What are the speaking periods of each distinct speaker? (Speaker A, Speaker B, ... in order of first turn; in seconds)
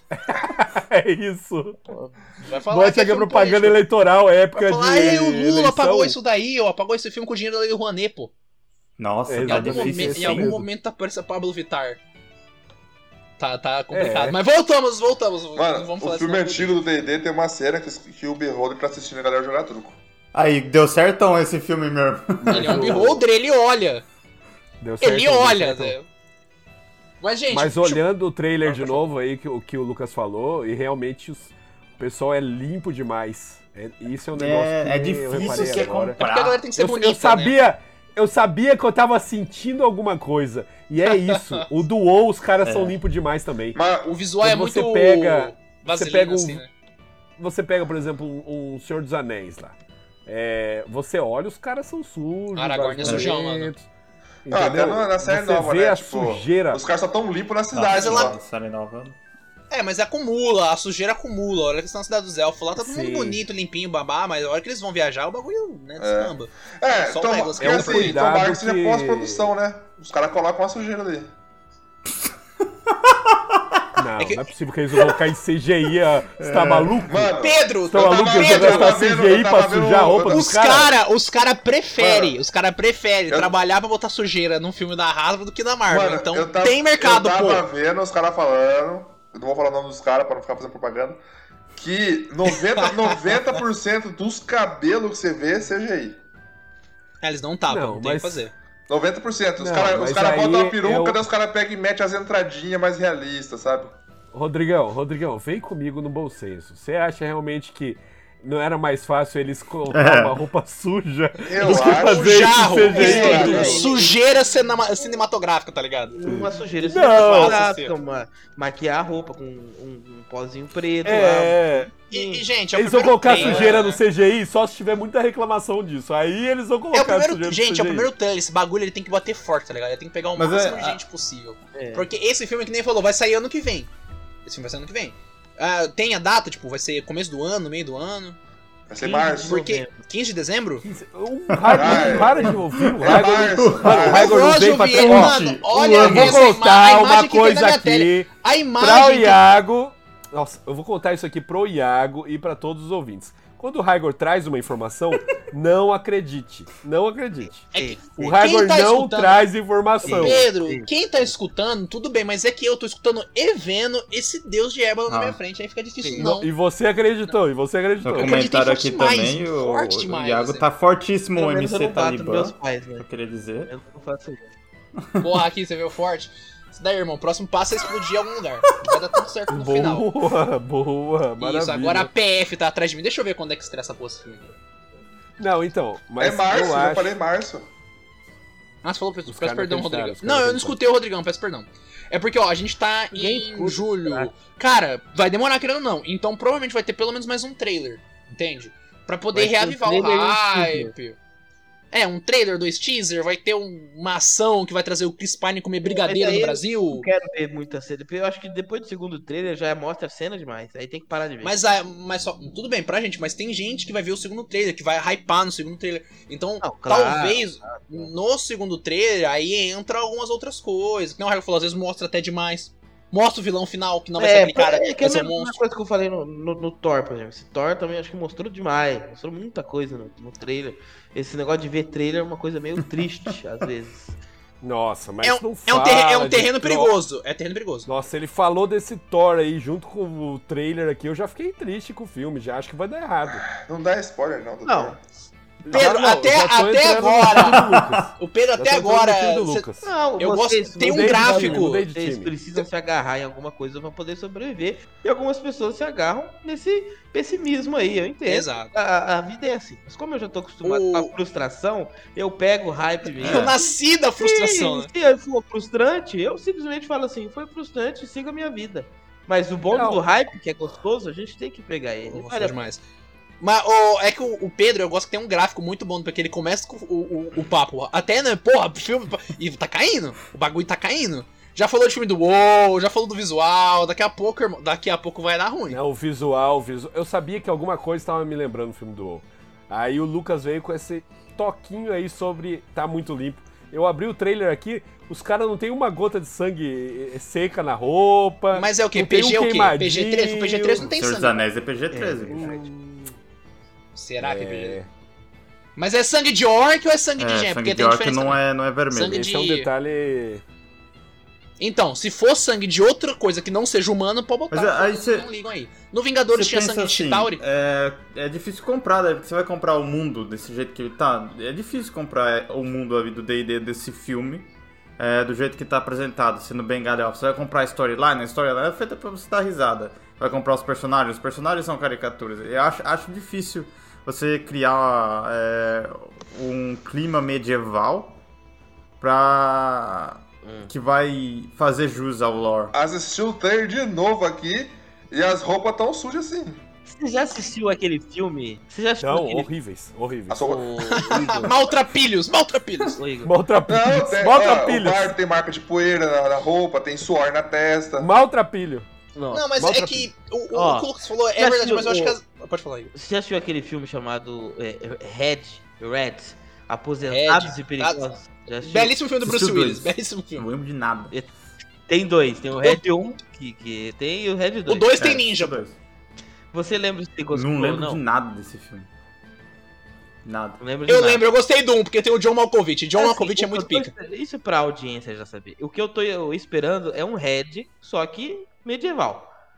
Speaker A: 0.1-1.9, 2.7-6.2, 9.3-10.7, 13.9-14.4, 22.4-23.2, 24.8-25.9, 27.5-36.2, 36.8-43.8, 44.4-46.6, 47.4-49.7, 50.2-53.9, 54.5-56.8, 62.8-63.4, 67.6-69.5, 74.0-77.3, 77.9-81.0, 97.7-98.5, 99.6-101.2, 104.3-113.8, 116.3-117.6, 121.0-121.9, 122.7-128.1, 140.8-160.4, 166.2-168.4, 179.5-182.1, 185.4-187.2, 189.3-190.8, 234.6-236.9, 237.8-243.4, 245.6-249.9, 250.8-252.3, 269.7-270.0, 285.7-300.9, 302.3-303.1, 304.2-304.9, 309.1-310.4, 349.0-350.6, 351.2-351.5, 353.2-355.1, 358.0-358.9, 359.6-360.1
Speaker B: 2.4-3.8, 4.5-8.3, 9.5-12.0, 13.4-16.8, 22.5-24.0, 25.0-26.1, 27.2-28.0, 35.4-37.5, 41.0-41.6, 44.1-46.7, 52.5-53.7, 57.9-58.3, 59.7-68.2, 74.2-74.5, 77.4-79.2, 80.3-87.6, 92.5-93.4, 97.2-98.5, 111.6-116.1, 116.9-117.9, 122.1-124.0, 126.9-133.9, 134.4-138.4, 139.4-140.8, 144.0-149.4, 157.7-159.4, 160.1-166.5, 168.1-170.6, 175.2-180.1, 181.4-184.5, 188.8-201.2, 201.9-207.1, 211.4-225.6, 235.2-237.9, 245.7-249.7, 250.2-251.9, 258.3-258.7, 260.6-261.1, 263.2-264.9, 272.1-272.8, 273.4-285.8, 298.5-301.4, 303.9-304.8, 305.8-308.4, 308.9-309.7, 311.6-317.4, 350.9-353.0, 359.3-362.9, 367.1-368.0, 368.6-370.4, 374.7-375.6, 380.9-383.9
Speaker C: 9.0-10.6, 20.3-23.1, 34.3-36.7, 42.6-43.0, 53.0-53.3, 57.7-59.2, 72.9-73.8, 76.4-77.3, 109.9-110.4, 130.3-131.0, 141.5-146.4, 165.1-165.4, 168.0-173.7, 175.0-175.3, 247.6-248.0, 263.2-263.5, 300.8-302.5, 307.2-309.2, 314.5-315.3, 316.3-338.2, 339.0-342.7, 369.2-371.1, 375.0-375.8, 377.3-378.9, 380.2-380.6
Speaker D: 15.6-20.0, 43.7-44.1, 54.5-58.4, 66.0-71.3, 77.1-80.4, 82.0-82.3, 85.9-91.2, 91.8-96.2, 98.9-104.0, 111.4-114.0, 138.9-139.6, 141.7-142.4, 143.0-144.3, 186.2-187.7, 243.3-245.0, 342.7-346.6, 350.3-351.3, 353.7-358.1
Speaker E: 112.9-114.1, 116.1-122.4, 123.3-123.8, 131.7-132.1, 139.0-140.0, 157.7-158.1, 160.0-160.9, 166.0-166.3, 171.3-173.1, 173.7-174.5, 193.1-194.3, 199.3-200.9, 205.8-211.5, 216.6-218.1, 224.2-234.2, 244.6-245.0, 249.8-272.6, 301.9-302.6, 340.4-340.7, 346.9-349.5, 350.4-351.5, 352.9-353.3, 359.1-359.5, 360.5-362.2, 362.9-368.9, 371.9-374.9, 376.5-378.0, 380.6-381.2, 382.9-389.3